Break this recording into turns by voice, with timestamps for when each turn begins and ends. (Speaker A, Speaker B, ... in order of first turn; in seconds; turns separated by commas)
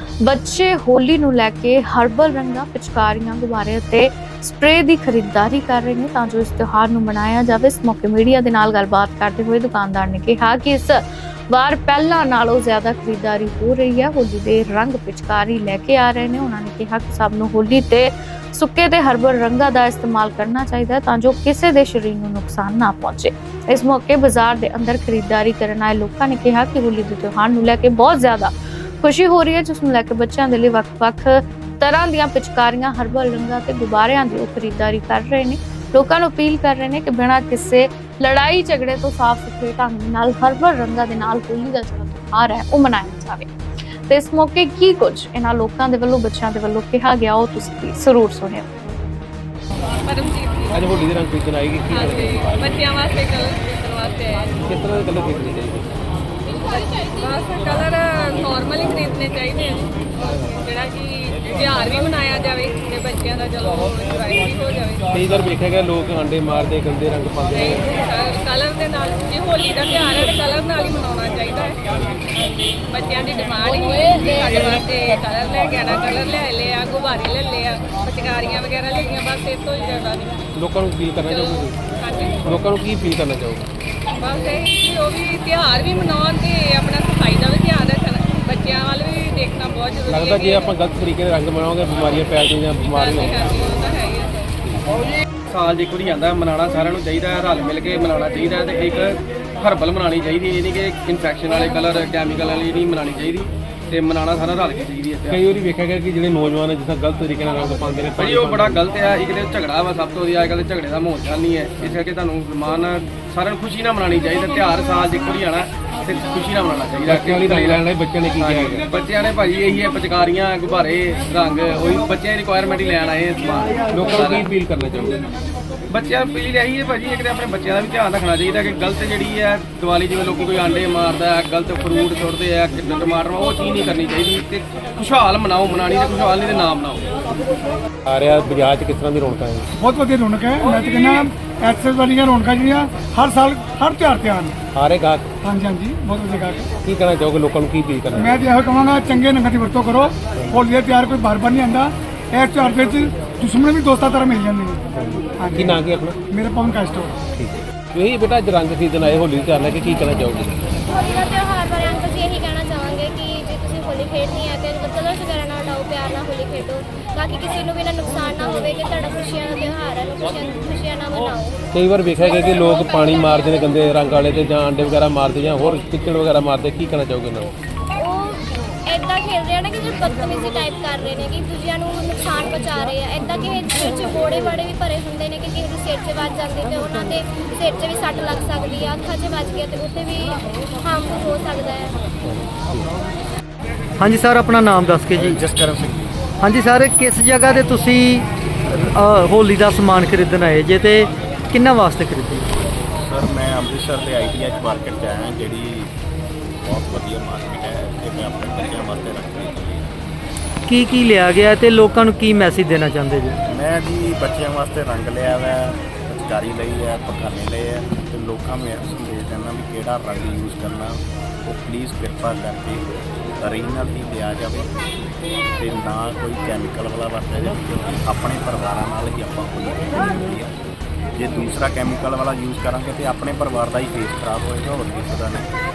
Speaker A: 0.2-43.5, Speaker A: 44.1-48.7, Speaker B: 50.1-51.1, Speaker C: 50.7-52.7, Speaker B: 51.9-54.5, Speaker C: 54.7-55.9, Speaker B: 56.7-65.0, Speaker C: 65.1-67.9, Speaker B: 67.5-71.8, Speaker B: 72.9-80.4, Speaker C: 80.6-81.8, Speaker B: 81.2-82.8, Speaker C: 82.4-83.6, Speaker B: 84.2-90.8, Speaker C: 90.1-93.8, Speaker B: 92.8-94.5, Speaker D: 95.5-105.4, Speaker C: 105.3-109.0, Speaker D: 108.2-117.8, Speaker C: 117.1-118.9, Speaker D: 118.4-124.6, Speaker C: 123.9-125.2, Speaker D: 125.9-137.4, Speaker C: 138.1-139.7, Speaker E: 139.8-144.6, Speaker C: 144.7-145.3, Speaker E: 145.4-146.8, Speaker C: 146.8-148.4, Speaker E: 148.2-154.8, Speaker C: 154.9-156.2, Speaker E: 155.4-157.1, Speaker C: 157.3-160.6, Speaker F: 160.9-171.6, Speaker C: 171.7-177.5, Speaker F: 172.2-173.8, Speaker F: 178.0-191.9, Speaker C: 192.3-192.8, Speaker G: 194.0-195.4, Speaker H: 195.2-196.1, Speaker G: 196.4-202.5, Speaker H: 203.0-205.9, Speaker H: 206.6-209.9, Speaker G: 210.7-213.4, Speaker H: 213.5-222.9, Speaker H: 223.4-224.7, Speaker H: 225.6-230.5, Speaker H: 231.2-235.5